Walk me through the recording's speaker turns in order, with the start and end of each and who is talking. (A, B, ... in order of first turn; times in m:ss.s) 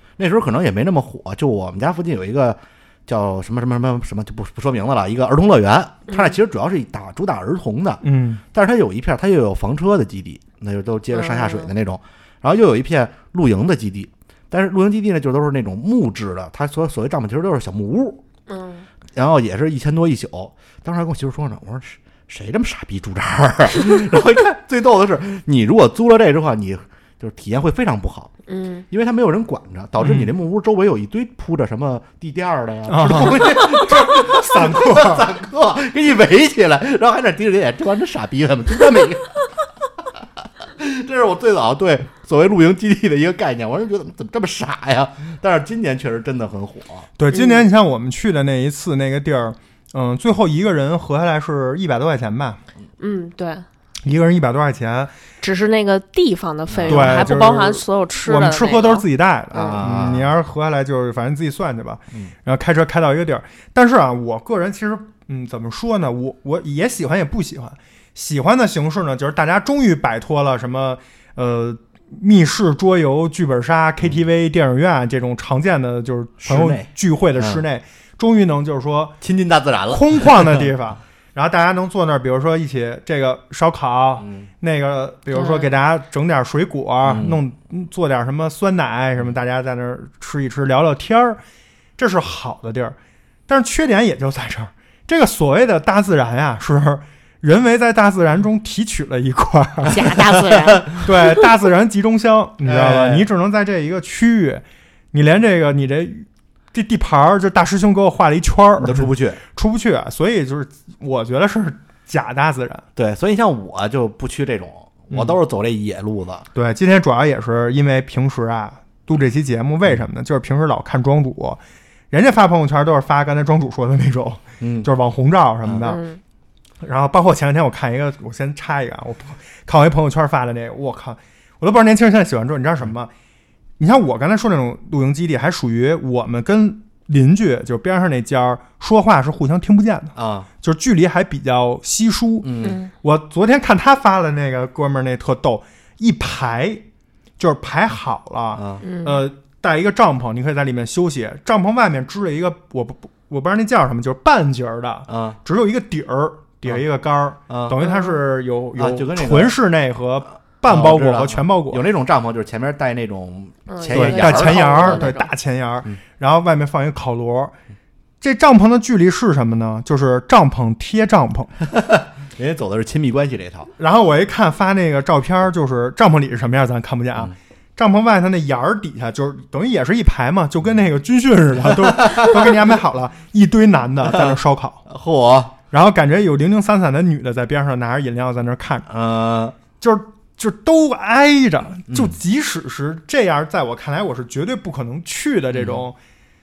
0:00.2-0:18.2 A
0:08.0-0:08.4 B
0:11.1-0:11.7 C
0:18.5-0:18.8 C
0:19.1-0:28.3 A
0:28.5-0:28.8 C
0:28.9-0:39.3 A
0:30.0-0:30.3 B
0:32.9-0:35.3 B
0:40.6-0:47.1 A
0:47.2-0:52.6 B
0:47.3-0:47.6 C
0:53.0-0:53.6 C
0:54.0-0:55.1 B
0:55.4-0:59.0 C
0:56.7-0:57.3 A
0:56.9-1:19.2 B
0:59.5-1:00.3 A
1:16.4-1:17.6 A
1:19.2-1:20.6 A
1:19.9-1:31.4 B
1:24.2-1:24.5 A
1:25.3-1:25.7 C
1:27.0-1:27.4 A
1:32.0-1:33.0 B
1:33.5-1:40.0 B
1:39.9-1:40.9 C
1:40.5-1:41.0 A
1:41.0-1:52.8 B
1:42.6-1:43.3 A
1:48.8-1:49.4 A
1:53.0-1:56.4 A
1:56.5-2:01.6 B
2:02.1-2:06.0 B
2:04.6-2:04.9 A
2:05.6-2:05.9 A
2:05.8-2:06.2 C
2:06.8-2:13.1 B
2:13.8-2:26.8 B
2:20.1-2:20.5 A
2:22.4-2:22.8 A
2:22.6-2:22.9 C
2:27.4-2:41.8 B
2:28.5-2:28.8 A
2:28.8-2:29.2 C
2:35.1-2:35.4 A
2:37.5-2:37.8 A
2:37.8-2:38.1 C
2:38.8-2:39.6 A
2:40.6-2:45.1 A
2:43.7-2:45.3 C
2:43.9-2:47.5 B
2:48.2-2:51.5 B
2:51.7-2:53.7 A
2:53.8-3:04.8 B
3:01.7-3:02.5 A
3:04.0-3:05.6 A
3:05.7-3:08.9 B
3:08.9-3:09.6 A
3:09.8-3:16.0 B
3:11.9-3:12.1 A
3:15.5-3:15.8 A